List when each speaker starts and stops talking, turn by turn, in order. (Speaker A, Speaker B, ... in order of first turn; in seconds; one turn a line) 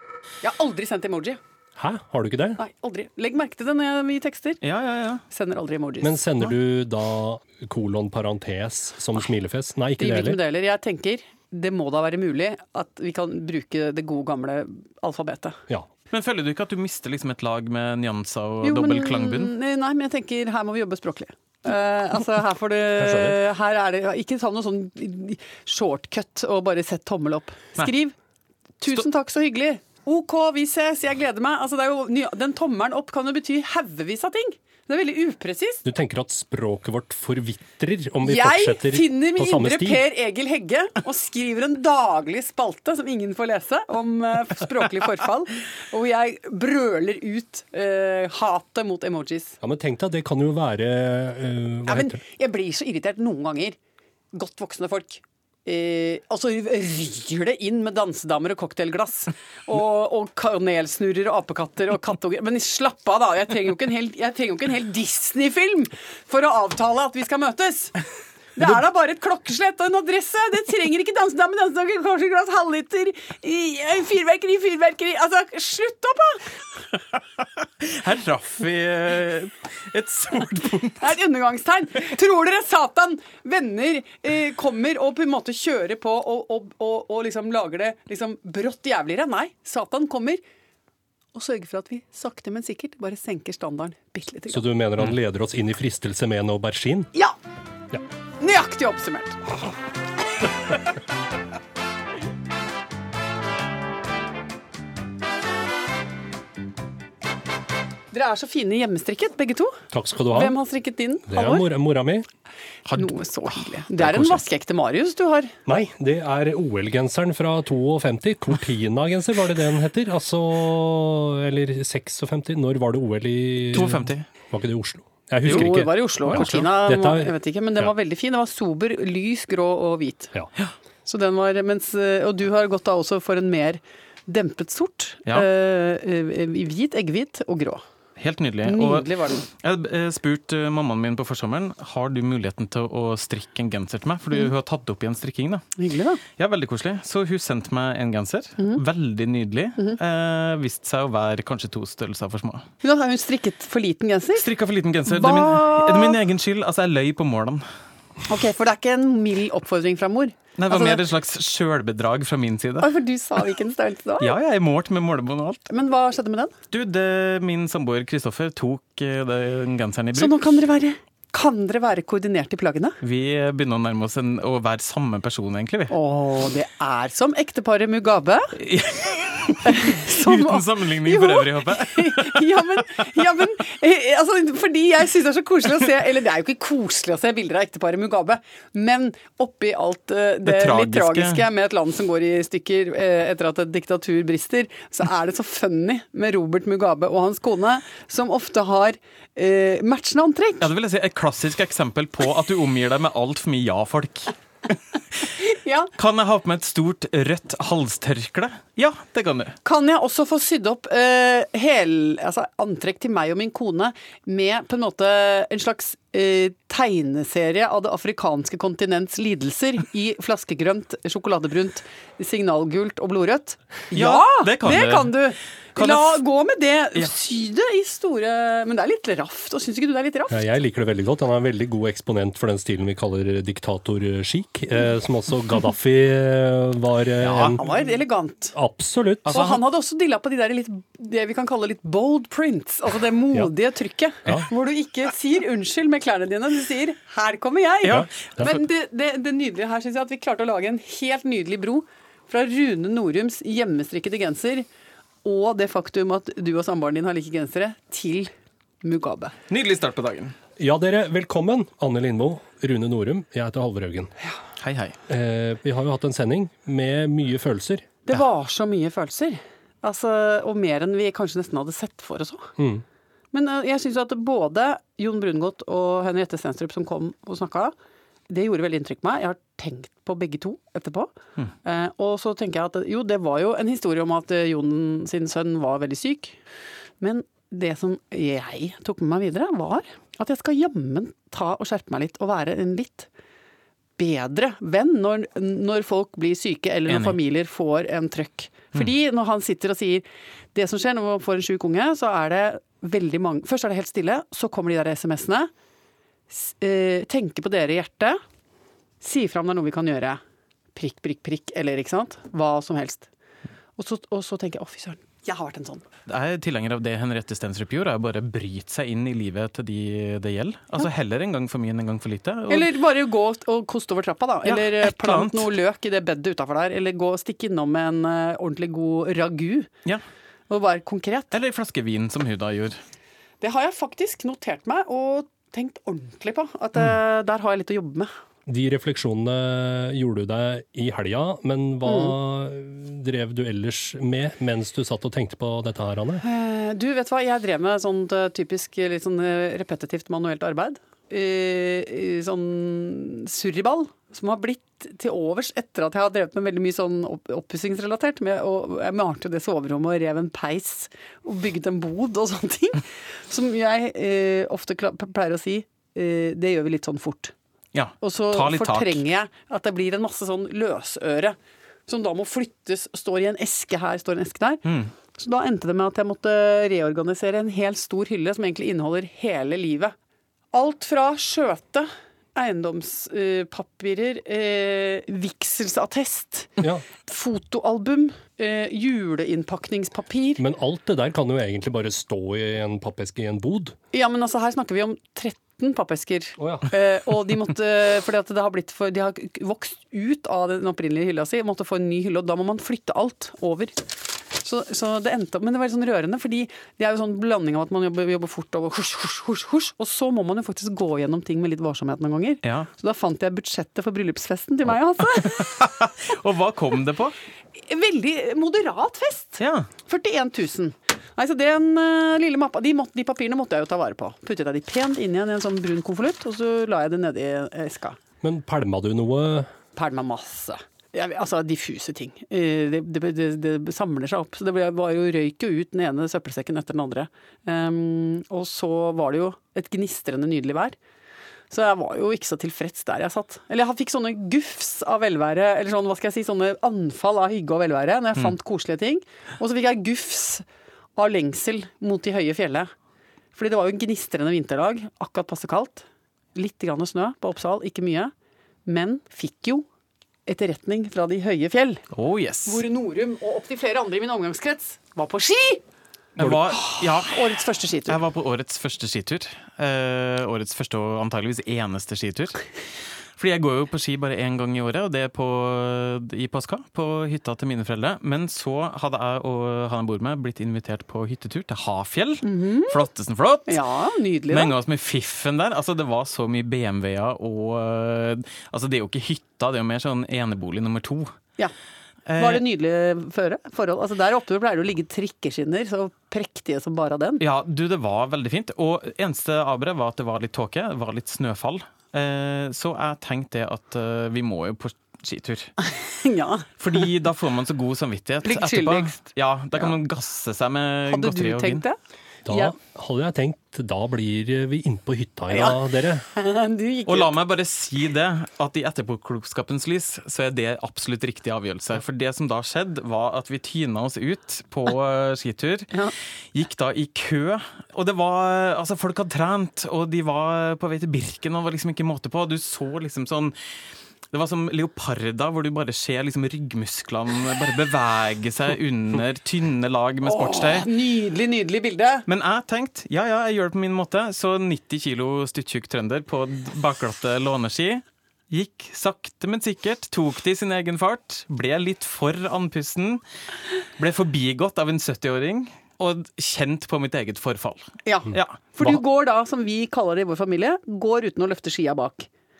Speaker A: 0.4-1.4
Speaker B: 1.8-2.6
Speaker A: 2.6-4.6
Speaker C: 4.6-5.2
Speaker A: 5.3-6.2
Speaker B: 6.0-10.4
Speaker A: 10.0-15.6
Speaker C: 16.1-19.5
Speaker A: 18.6-28.1
Speaker B: 23.0-23.4
Speaker A: 28.8-35.8
Speaker B: 35.8-40.0
Speaker A: 38.2-49.6
Speaker B: 49.6-52.2
Speaker A: 51.9-53.8
Speaker A: 54.3-68.0
Speaker A: 68.5-76.5
Speaker C: 77.6-81.0
Speaker A: 81.0-90.4
Speaker A: 91.3-94.6
Speaker B: 94.5-97.1
Speaker A: 98.4-99.6
Speaker A: 108.1-109.8
Speaker B: 109.9-110.6
Speaker A: 110.3-111.7
Speaker B: 111.3-112.2
Speaker C: 112.9-114.4
Speaker A: 112.9-115.5
Speaker B: 115.7-127.9
Speaker C: 123.7-124.2
Speaker A: 125.4-130.3
Speaker C: 126.3-126.7
Speaker A: 131.1-137.8
Speaker C: 138.2-145.6
Speaker A: 138.6-139.5
Speaker A: 145.8-146.2
Speaker C: 146.4-152.6
Speaker A: 152.8-154.5
Speaker C: 154.3-157.6
Speaker A: 155.1-156.2
Speaker A: 158.3-161.0
Speaker C: 160.6-162.9
Speaker A: 162.8-164.4
Speaker C: 164.2-165.7
Speaker A: 165.7-166.6
Speaker C: 166.7-170.4
Speaker A: 170.1-173.0
Speaker C: 173.0-175.9
Speaker A: 175.9-178.5
Speaker C: 178.6-182.8
Speaker A: 179.6-200.7
Speaker C: 190.4-191.4
Speaker C: 200.6-205.3
Speaker A: 205.3-205.9
Speaker C: 206.0-209.6
Speaker A: 209.6-230.5
Speaker C: 223.9-225.2
Speaker C: 225.8-226.2
Speaker B: 230.3-237.7
Speaker C: 237.2-237.6
Speaker A: 237.6-238.6
Speaker B: 238.5-239.4
Speaker C: 239.2-239.6
Speaker A: 239.3-254.7
Speaker C: 247.8-248.6
Speaker B: 247.9-248.5
Speaker A: 255.2-258.3
Speaker A: 258.8-259.3
Speaker C: 259.5-260.3
Speaker B: 260.6-264.1
Speaker C: 264.6-265.0
Speaker B: 265.1-267.9
Speaker A: 268.1-272.5
Speaker B: 272.6-272.8
Speaker A: 273.3-277.7
Speaker A: 278.3-281.1
Speaker A: 281.6-286.4
Speaker A: 287.0-293.1
Speaker A: 294.0-305.5
Speaker C: 296.9-297.1
Speaker A: 306.3-308.2
Speaker A: 309.0-310.2
Speaker A: 310.8-313.1
Speaker A: 313.8-315.8
Speaker C: 316.1-322.7
Speaker A: 322.5-329.7
Speaker C: 324.4-325.5
Speaker A: 330.5-331.3
Speaker C: 331.3-332.8
Speaker A: 333.4-338.1
Speaker B: 338.5-346.2
Speaker A: 341.9-342.1
Speaker A: 346.2-367.3
Speaker C: 367.7-369.0
Speaker A: 368.0-371.4
Speaker A: 371.9-379.9
Speaker A: 380.5-390.4
Speaker B: 386.6-386.8
Speaker B: 390.4-393.8
Speaker A: 393.9-403.8
Speaker B: 396.4-396.7
Speaker A: 404.4-415.6
Speaker C: 415.2-417.1
Speaker A: 417.6-428.0
Speaker C: 419.4-419.7
Speaker B: 428.2-429.5
Speaker A: 429.8-440.8
Speaker A: 441.5-450.4
Speaker A: 450.9-452.7
Speaker A: 453.3-458.1
Speaker A: 458.6-459.6
Speaker A: 460.2-461.8
Speaker C: 461.9-462.6
Speaker A: 462.4-465.6
Speaker C: 466.1-472.4
Speaker B: 466.2-466.5
Speaker A: 466.5-468.0
Speaker C: 473.2-483.6
Speaker A: 482.2-482.9
Speaker A: 483.5-484.6
Speaker C: 484.3-491.1
Speaker C: 492.1-492.4
Speaker A: 492.2-497.2
Speaker C: 497.2-505.5
Speaker A: 505.6-506.8
Speaker C: 506.6-511.6
Speaker A: 508.2-509.1
Speaker A: 510.9-511.8
Speaker B: 512.3-516.1
Speaker A: 512.3-512.5
Speaker A: 515.3-517.2
Speaker C: 516.9-525.7
Speaker C: 526.3-533.4
Speaker C: 534.1-540.7
Speaker A: 540.0-542.1
Speaker C: 542.1-553.0
Speaker C: 553.8-558.8
Speaker A: 557.9-562.1